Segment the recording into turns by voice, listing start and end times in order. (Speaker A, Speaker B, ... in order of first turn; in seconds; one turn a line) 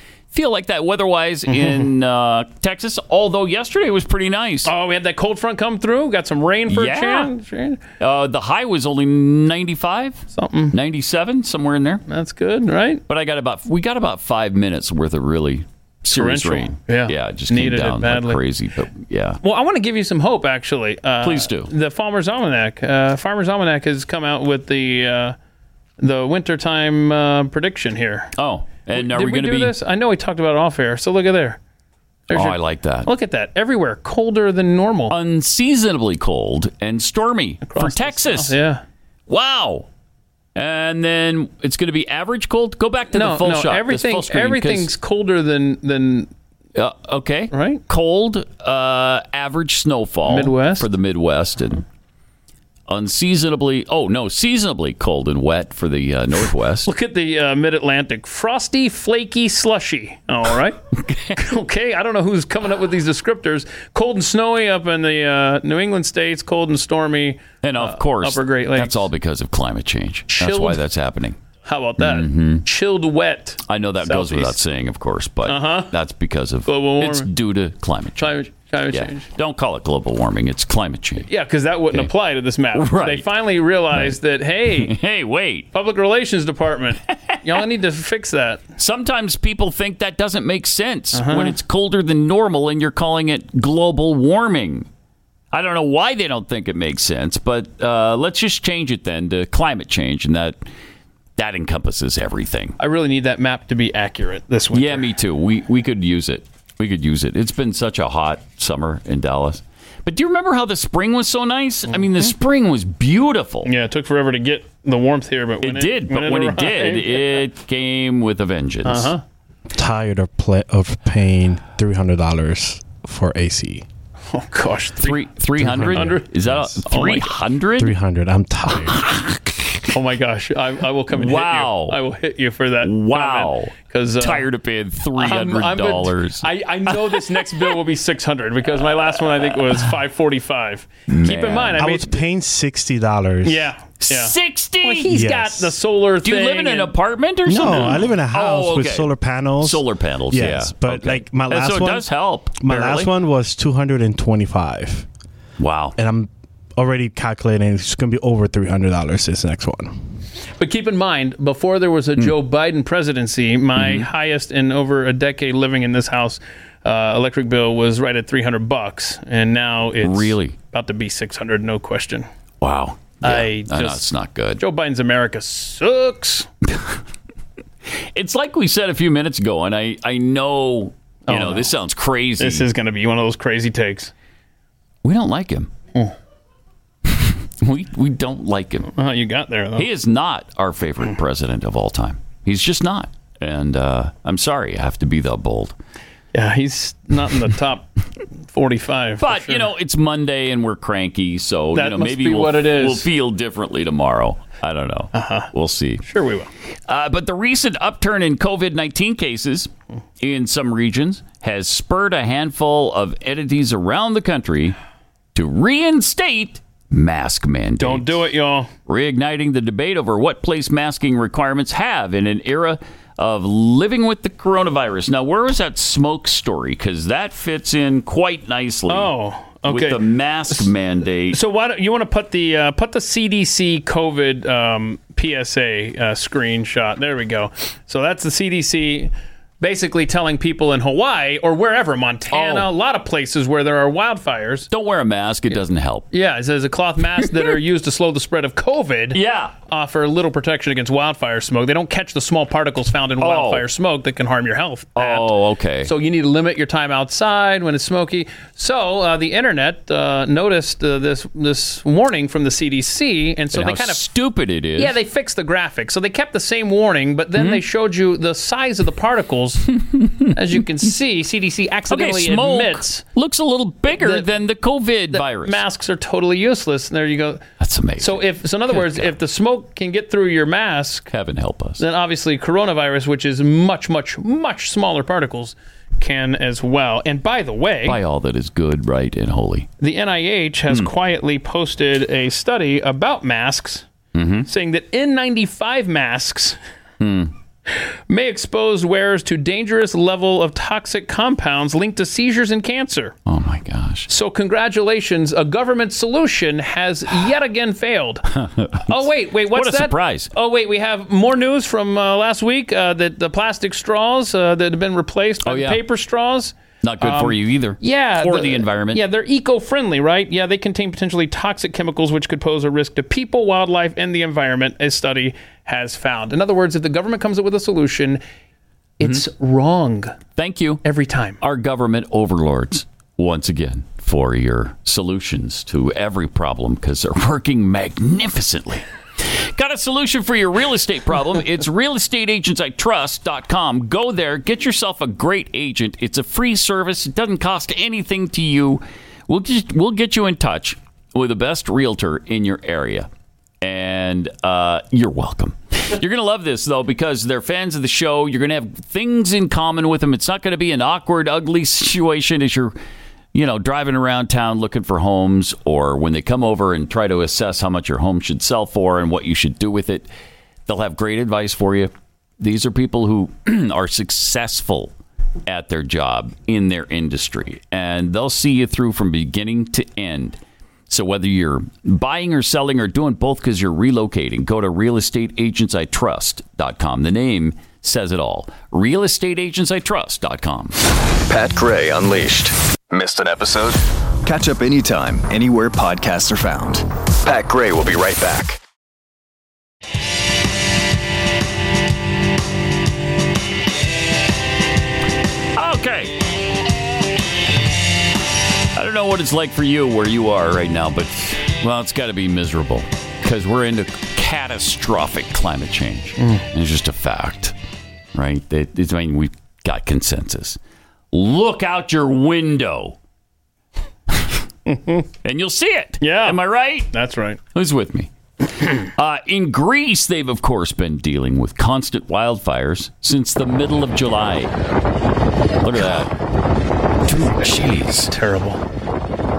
Speaker A: 0.3-4.7
Speaker B: 1.5-1.9
Speaker B: 4.6-7.8
Speaker A: 6.7-7.3
Speaker A: 8.0-12.0
Speaker B: 10.3-10.8
Speaker B: 12.1-13.0
Speaker A: 13.1-19.4
Speaker B: 16.1-18.4
Speaker B: 19.4-25.3
Speaker A: 21.2-21.7
Speaker B: 26.0-28.3
Speaker A: 28.4-29.7
Speaker B: 28.9-31.6
Speaker B: 32.3-35.1
Speaker A: 32.3-33.1
Speaker A: 35.1-38.5
Speaker B: 37.6-38.8
Speaker A: 39.3-39.9
Speaker A: 40.5-44.9
Speaker B: 43.1-46.3
Speaker A: 46.7-51.8
Speaker B: 47.5-47.8
Speaker B: 50.2-50.9
Speaker A: 52.9-56.9
Speaker B: 56.9-60.8
Speaker A: 61.0-61.4
Speaker B: 61.3-69.0
Speaker A: 67.6-71.4
Speaker B: 70.3-70.8
Speaker B: 71.6-74.6
Speaker A: 72.0-72.6
Speaker A: 73.7-78.4
Speaker B: 75.5-75.9
Speaker B: 76.7-77.3
Speaker B: 78.2-79.2
Speaker A: 78.9-81.3
Speaker B: 81.3-84.9
Speaker A: 82.7-83.3
Speaker A: 84.7-85.7
Speaker B: 85.7-88.6
Speaker A: 88.8-94.9
Speaker B: 91.1-91.5
Speaker A: 95.5-100.6
Speaker A: 101.4-102.8
Speaker B: 102.8-105.1
Speaker A: 104.7-113.7
Speaker B: 111.9-112.3
Speaker B: 113.6-117.4
Speaker A: 115.6-119.1
Speaker B: 118.8-119.2
Speaker C: 119.7-123.8
Speaker B: 124.3-125.2
Speaker A: 125.0-128.0
Speaker C: 125.6-126.8
Speaker B: 125.8-126.3
Speaker B: 126.8-127.3
Speaker C: 127.8-129.2
Speaker B: 129.9-134.4
Speaker A: 131.1-132.0
Speaker A: 132.8-137.2
Speaker B: 135.2-142.2
Speaker A: 141.1-141.8
Speaker C: 141.8-143.7
Speaker B: 143.4-146.9
Speaker A: 144.0-145.1
Speaker C: 145.1-145.7
Speaker A: 146.2-153.1
Speaker C: 147.4-152.1
Speaker B: 147.7-148.1
Speaker C: 152.6-155.1
Speaker A: 155.6-155.9
Speaker C: 156.0-160.0
Speaker B: 160.6-172.3
Speaker A: 163.8-164.1
Speaker A: 170.0-170.6
Speaker A: 172.6-174.6
Speaker B: 173.2-174.0
Speaker B: 174.6-176.5
Speaker A: 178.1-182.7
Speaker B: 181.3-181.7
Speaker B: 182.4-184.1
Speaker A: 185.0-185.7
Speaker A: 187.1-188.9
Speaker B: 188.9-189.9
Speaker A: 189.8-195.7
Speaker B: 196.3-197.9
Speaker B: 198.5-199.7
Speaker A: 199.2-206.0
Speaker B: 201.7-203.1
Speaker B: 205.1-205.5
Speaker B: 206.0-206.5
Speaker A: 206.9-214.8
Speaker A: 215.3-218.2
Speaker B: 217.8-218.7
Speaker A: 218.9-229.1
Speaker B: 228.9-230.0
Speaker A: 229.7-231.4
Speaker B: 231.3-244.7
Speaker A: 242.3-242.7
Speaker A: 244.7-246.1
Speaker B: 246.1-255.3
Speaker A: 247.2-247.5
Speaker A: 249.1-249.5
Speaker A: 253.2-253.6
Speaker A: 254.9-255.9
Speaker B: 255.8-264.0
Speaker A: 263.5-264.9
Speaker B: 264.8-269.7
Speaker A: 267.4-267.6
Speaker A: 269.8-270.3
Speaker B: 270.3-273.0
Speaker A: 271.9-275.6
Speaker B: 274.0-274.3
Speaker B: 275.1-277.4
Speaker A: 277.6-279.1
Speaker B: 278.0-281.1
Speaker A: 281.1-281.8
Speaker B: 281.8-288.0
Speaker A: 287.9-289.7
Speaker B: 289.8-293.8
Speaker A: 294.1-294.5
Speaker B: 294.5-296.6
Speaker A: 297.0-297.3
Speaker B: 298.1-303.1
Speaker A: 303.3-304.1
Speaker B: 304.1-308.2
Speaker A: 308.3-310.3
Speaker B: 308.9-328.2
Speaker A: 315.4-315.8
Speaker A: 316.8-319.0
Speaker B: 329.0-330.1
Speaker A: 330.4-330.8
Speaker B: 330.8-331.4
Speaker A: 331.4-338.8
Speaker A: 339.5-353.1
Speaker A: 353.6-362.7
Speaker A: 363.3-370.1
Speaker A: 370.7-374.9
Speaker A: 375.5-380.4
Speaker A: 380.9-390.8
Speaker D: 391.3-398.6
Speaker A: 405.6-406.1
Speaker A: 408.7-417.5
Speaker B: 416.2-416.4
Speaker A: 418.1-420.6
Speaker A: 421.1-422.9
Speaker B: 424.7-425.0
Speaker A: 425.2-426.9
Speaker B: 426.0-426.4
Speaker B: 426.9-427.4
Speaker A: 427.5-428.1
Speaker A: 428.9-434.5
Speaker A: 435.6-436.1
Speaker A: 437.1-438.1
Speaker B: 438.1-438.6